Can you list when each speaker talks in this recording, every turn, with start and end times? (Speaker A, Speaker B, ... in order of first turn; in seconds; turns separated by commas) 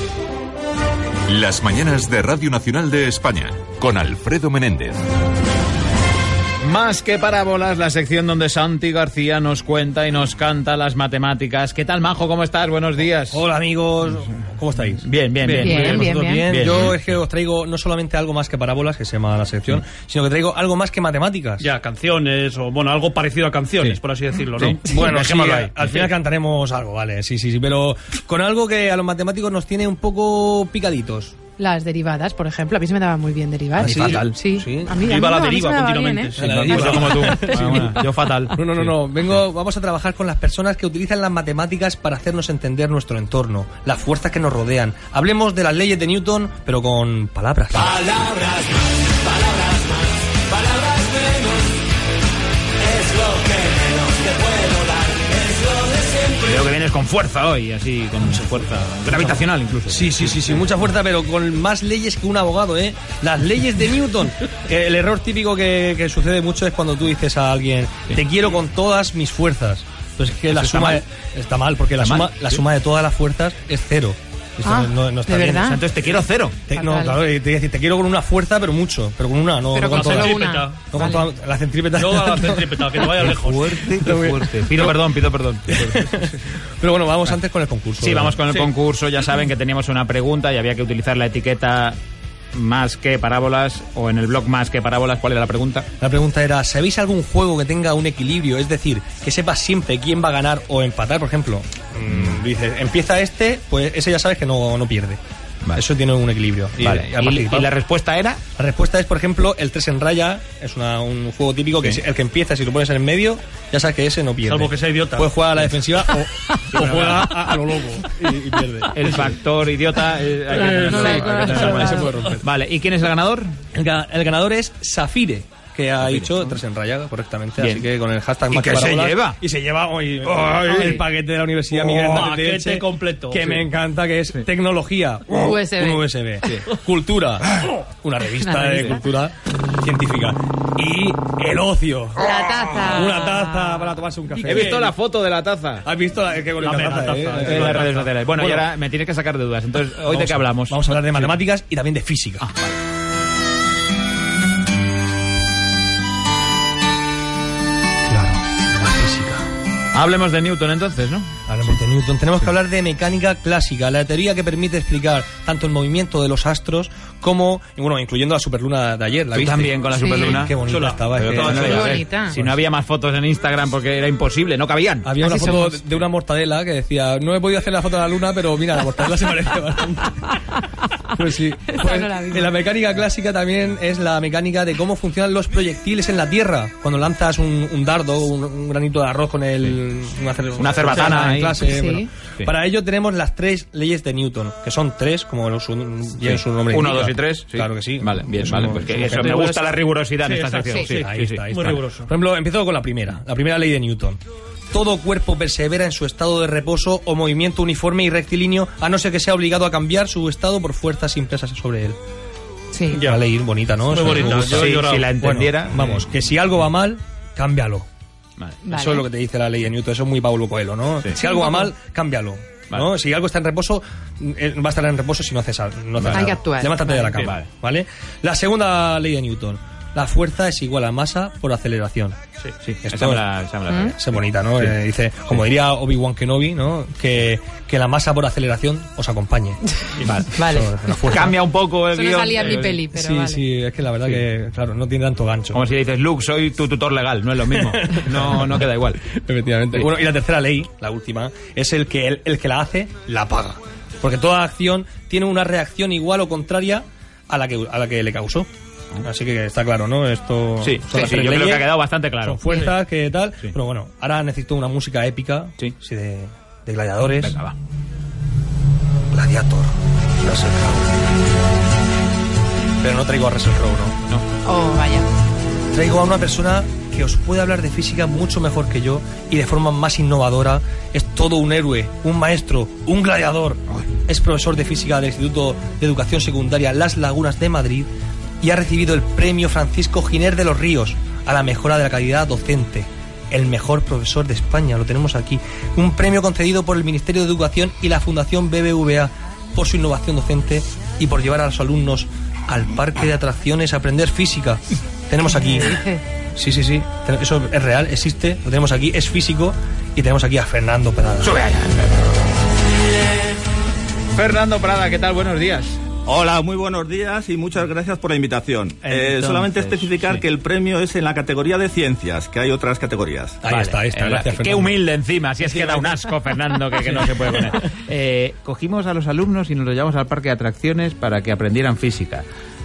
Speaker A: 1.3-5.0, Speaker B: 6.6-13.4, Speaker C: 13.3-21.7, Speaker B: 15.0-17.0, Speaker D: 15.6-16.9, Speaker E: 21.6-26.0, Speaker B: 24.5-25.3, Speaker C: 24.9-31.4, Speaker D: 31.6-36.5, Speaker C: 33.8-35.0, Speaker B: 33.8-34.4, Speaker E: 35.1-38.5, Speaker C: 36.4-38.0, Speaker B: 36.5-38.9, Speaker D: 37.2-37.7, Speaker C: 38.5-48.0, Speaker B: 56.4-60.6, Speaker C: 59.9-75.7, Speaker B: 70.5-71.0, Speaker B: 72.0-72.6, Speaker D: 74.7-75.8, Speaker B: 75.6-76.7, Speaker C: 76.7-85.0, Speaker D: 76.7-77.2, Speaker D: 79.7-81.3, Speaker E: 79.9-80.8, Speaker E: 82.0-84.0, Speaker B: 83.1-86.2, Speaker C: 85.7-88.4, Speaker B: 88.0-92.0, Speaker B: 92.5-95.9, Speaker C: 96.0-105.2, Speaker C: 105.7-107.7, Speaker B: 106.8-108.4, Speaker C: 108.6-116.3, Speaker E: 114.4-118.1, Speaker B: 116.7-117.7, Speaker C: 118.2-118.9, Speaker B: 118.9-123.5, Speaker E: 120.5-121.1, Speaker D: 120.9-122.1, Speaker C: 121.2-122.4, Speaker E: 121.7-122.3, Speaker C: 123.7-144.9, Speaker B: 126.0-126.3, Speaker B: 127.6-127.8, Speaker B: 128.5-129.4, Speaker E: 130.3-130.8, Speaker D: 130.7-131.0, Speaker E: 131.7-133.7, Speaker D: 135.4-136.1, Speaker D: 138.4-138.9, Speaker D: 142.2-143.8, Speaker B: 144.4-145.9, Speaker C: 145.8-148.7, Speaker B: 146.6-151.3, Speaker C: 150.1-152.5, Speaker B: 152.4-152.8, Speaker C: 158.1-159.5, Speaker B: 159.9-161.3, Speaker C: 161.5-172.6, Speaker B: 169.3-170.5, Speaker D: 170.0-170.3, Speaker E: 170.7-171.6, Speaker B: 171.1-175.1, Speaker D: 171.6-172.4, Speaker C: 175.0-180.4, Speaker D: 175.2-175.7, Speaker C: 181.1-199.4, Speaker D: 181.7-182.5, Speaker B: 190.6-191.7, Speaker D: 191.6-192.1, Speaker B: 196.2-201.8, Speaker E: 199.2-199.6, Speaker E: 200.2-201.0, Speaker C: 200.8-204.2, Speaker E: 201.5-202.1, Speaker C: 204.7-212.0, Speaker D: 212.7-213.1, Speaker E: 212.9-213.2, Speaker C: 213.0-217.9, Speaker E: 213.9-215.1, Speaker B: 214.0-216.0, Speaker D: 218.6-219.1, Speaker C: 218.7-232.2, Speaker D: 221.3-221.7, Speaker B: 226.0-226.3, Speaker D: 226.1-227.1, Speaker B: 227.1-227.4, Speaker B: 232.5-234.7, Speaker C: 232.8-233.3, Speaker C: 233.9-239.7, Speaker B: 240.0-242.8, Speaker D: 240.4-240.7, Speaker C: 240.4-241.3, Speaker D: 241.9-243.4, Speaker C: 242.4-245.6, Speaker B: 245.5-249.0, Speaker C: 247.6-258.5, Speaker C: 259.0-267.4, Speaker B: 260.6-262.6, Speaker B: 267.2-267.6, Speaker C: 269.1-270.9, Speaker C: 272.8-274.0, Speaker D: 274.4-275.1, Speaker C: 275.7-287.9, Speaker C: 288.4-311.3, Speaker D: 305.7-306.0, Speaker B: 311.2-312.2, Speaker B: 314.1-315.8, Speaker F: 316.1-323.4, Speaker B: 318.8-320.2, Speaker C: 323.4-324.8, Speaker B: 323.5-332.2